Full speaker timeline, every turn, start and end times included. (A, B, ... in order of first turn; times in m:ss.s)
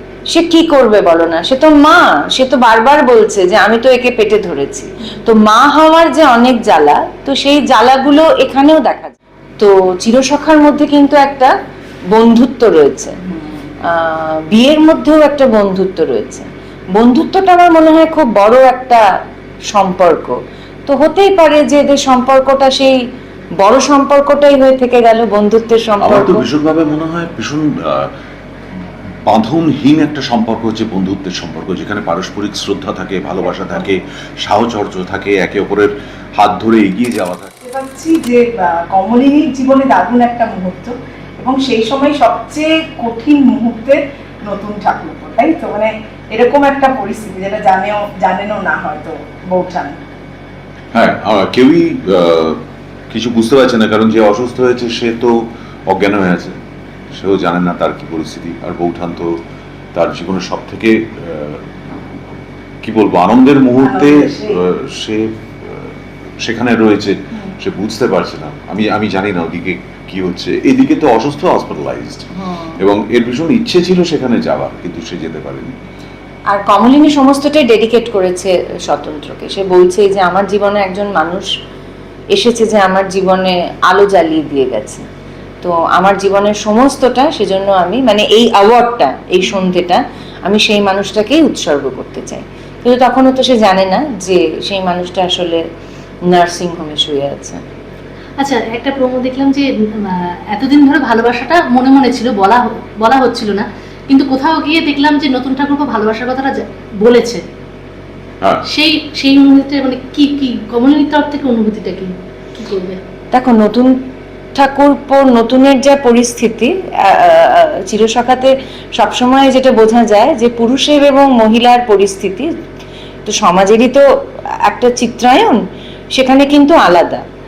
0:00.3-0:11.5 A
0:12.1-0:13.2 A
0:13.2-0:13.7 B
0:13.9-0:19.0 A
0:19.7-0:20.4 A
0:20.9-0:23.0 A
0:23.6-0:26.5 A
0:26.0-0:28.1 C
0:29.3-0:37.5 C
0:37.6-0:50.0 B
0:50.9-0:52.6 C
0:53.1-0:56.6 C
0:57.1-0:59.4 C
0:59.9-1:01.6 C
1:02.8-1:05.9 C
1:03.8-1:04.6 B
1:06.4-1:12.3 C
1:12.4-1:12.8 A
1:12.8-1:15.7 C
1:16.5-1:21.5 A
1:22.3-1:25.0 A
1:25.6-1:35.6 A
1:36.3-1:37.6 A
1:38.4-1:47.4 D
1:48.7-1:53.0 D
1:53.3-1:54.0 A
1:54.6-2:02.5 A
2:03.3-2:04.0 A
2:04.6-2:05.6 A
2:06.2-2:07.2 A